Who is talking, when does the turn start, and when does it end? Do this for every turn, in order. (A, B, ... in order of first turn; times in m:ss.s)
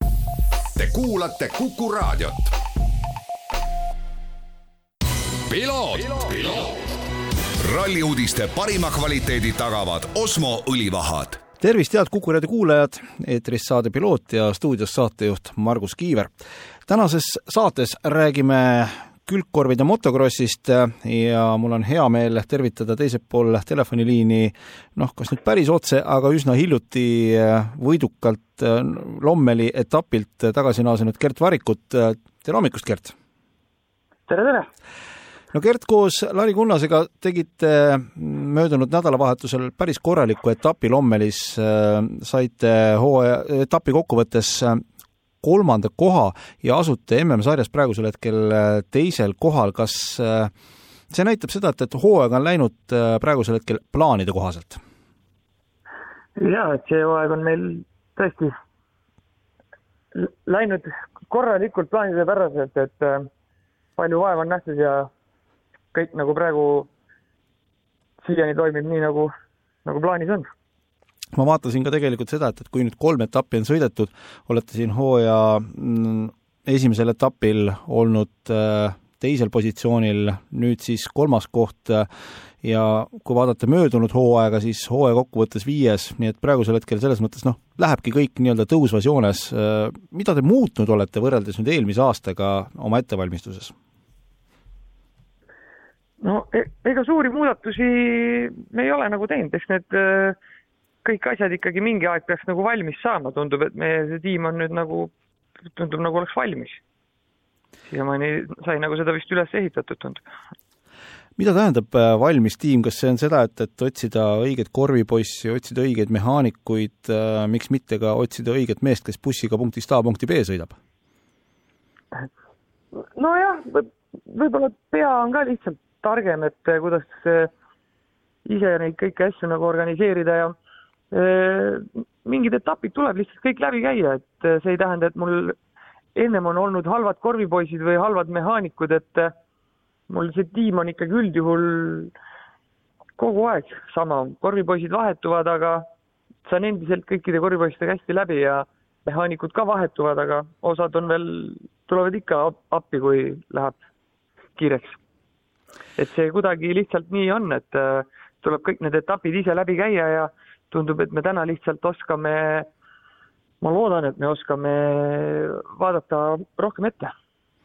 0:00.8-0:02.5 A
0:05.5-0:06.7 A
0:07.6-0:11.4 A
0:11.6-0:16.3 B
0:16.9-0:33.1 B
0:34.3-0:34.7 C
0:35.5-0:44.8 B
0:45.4-0:50.5 B
0:51.1-0:54.8 B
0:56.4-0:58.5 C
1:00.1-1:03.3 C
1:04.0-1:05.1 C
1:05.9-1:06.9 C
1:08.2-1:09.3 C
1:09.8-1:10.5 C
1:11.3-1:22.1 B
1:22.6-1:33.7 B
1:36.2-1:40.4 C
1:41.0-1:45.1 C
1:45.7-1:46.8 C
1:47.9-1:50.2 C
1:51.4-2:00.8 B
2:03.0-2:07.5 C
2:08.4-2:10.5 C
2:11.1-2:15.6 C
2:16.1-2:19.3 C
2:20.1-2:22.1 C
2:23.2-2:25.8 C
2:26.4-2:33.8 C
2:34.6-2:35.0 C
2:36.0-2:42.7 C
2:43.6-2:47.1 C